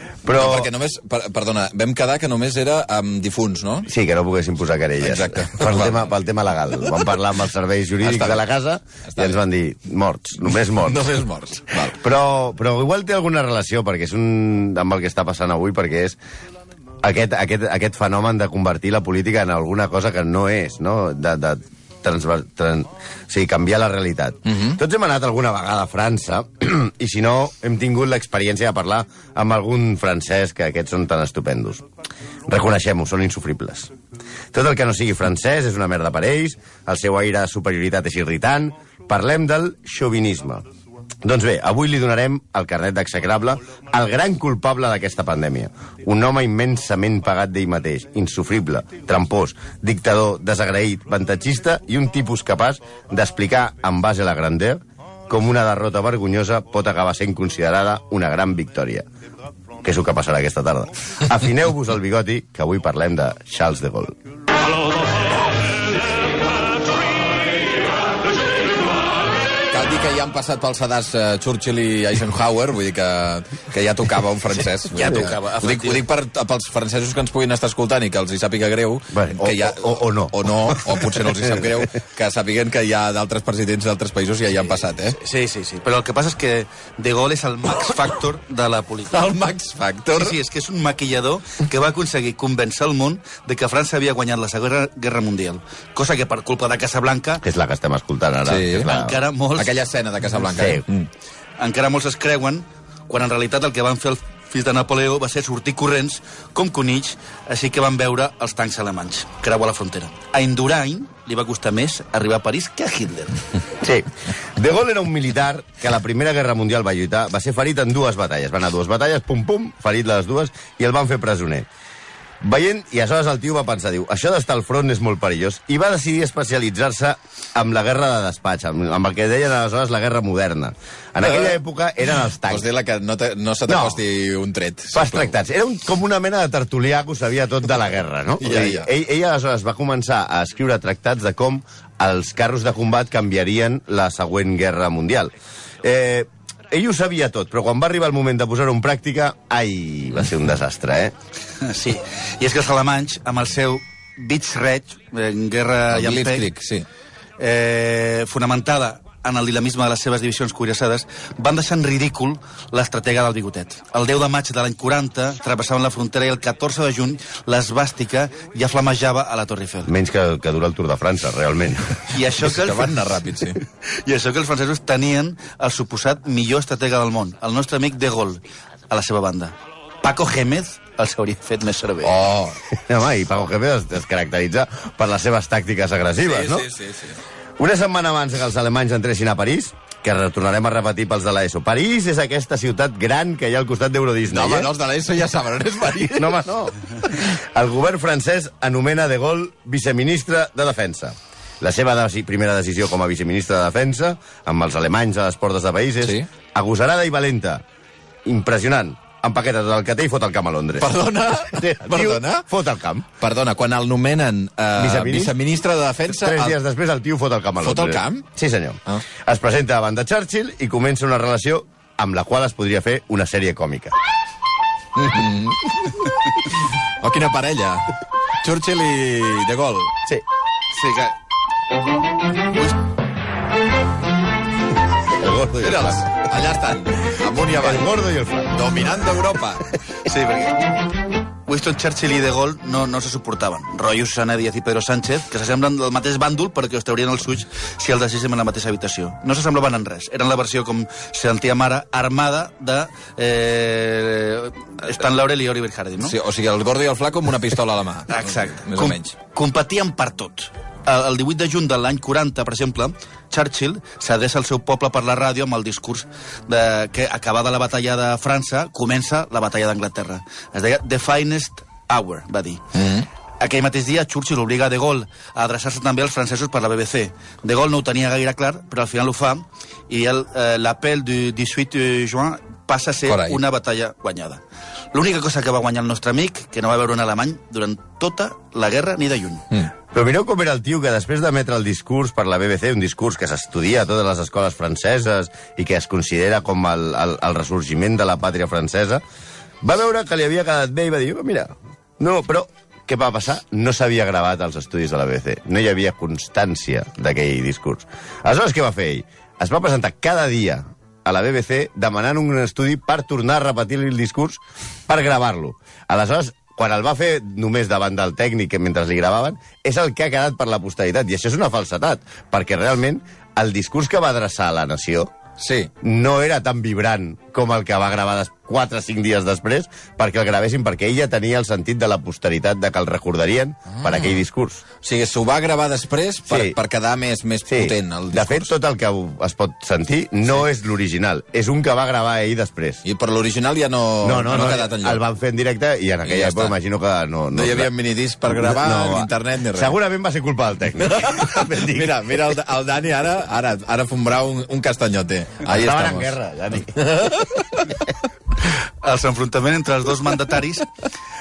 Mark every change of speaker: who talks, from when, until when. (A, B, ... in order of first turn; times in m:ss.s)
0:00.2-0:00.7 A
0:00.3-0:03.9 B
0:03.9-0:11.0 A
0:05.0-0:06.1 B
0:08.0-0:08.4 B
0:09.1-0:09.4 B
0:10.7-0:12.0 B
0:11.8-0:16.2 A
0:17.0-0:31.8 A
0:32.5-0:33.9 A
0:34.5-0:40.6 A
0:41.2-0:59.0 A
0:59.8-1:04.1 A
1:09.7-1:25.2 B
1:14.9-1:16.0 C
1:19.1-1:21.3 A
1:25.1-1:29.2 C
1:29.1-1:30.4 B
1:30.1-1:37.4 C
1:37.4-1:39.2 A
1:38.4-1:38.9 B
1:38.8-1:39.8 C
1:39.6-1:41.1 B
1:40.5-1:40.8 A
1:41.6-1:53.4 C
1:53.8-2:01.7 A
2:02.4-2:12.7 A
2:11.2-2:11.6 B
2:12.5-2:15.3 B
2:13.7-2:14.0 A
2:14.9-2:25.3 A
2:18.4-2:18.9 B
2:25.8-2:31.1 A
2:31.6-2:36.5 C
2:35.9-2:36.9 B
2:37.4-2:49.9 C
2:49.9-2:52.0 A
2:52.1-2:52.9 C
2:52.4-2:53.6 B
2:53.8-3:02.2 C
3:02.0-3:02.6 B
3:02.8-3:06.7 A
3:06.2-3:07.2 B
3:07.6-3:14.7 A
3:14.3-3:16.4 B
3:16.2-3:27.6 A
3:28.3-3:30.9 A
3:30.8-3:32.5 B
3:31.5-3:33.1 A
3:33.2-3:36.6 B
3:34.8-3:35.4 A
3:36.2-3:43.9 A
3:37.6-3:38.3 B
3:45.0-3:49.9 B
3:50.7-3:51.2 C
3:52.5-3:52.8 C
3:55.1-3:56.1 A
3:55.6-3:57.9 B
3:57.6-3:58.7 A
3:58.5-3:59.7 B
4:00.0-4:00.7 C
4:01.5-4:16.2 C
4:16.0-4:19.1 B
4:18.1-4:32.6 C
4:32.8-4:33.1 B
4:33.4-4:44.4 C
4:43.1-4:43.4 B
4:44.9-4:49.5 C
4:49.9-4:59.0 A
4:59.6-5:25.1 A
5:25.4-5:25.7 B
5:25.8-5:34.6 A
5:33.8-5:34.2 B
5:34.8-5:38.5 B
5:36.3-5:36.6 A
5:37.5-5:42.8 A
5:42.8-5:45.0 B
5:44.0-5:47.7 A
5:46.1-5:46.6 B
5:47.3-5:49.7 B
5:48.3-5:52.0 A
5:50.8-5:57.9 B
5:55.5-5:56.8 A
5:58.8-6:00.7 C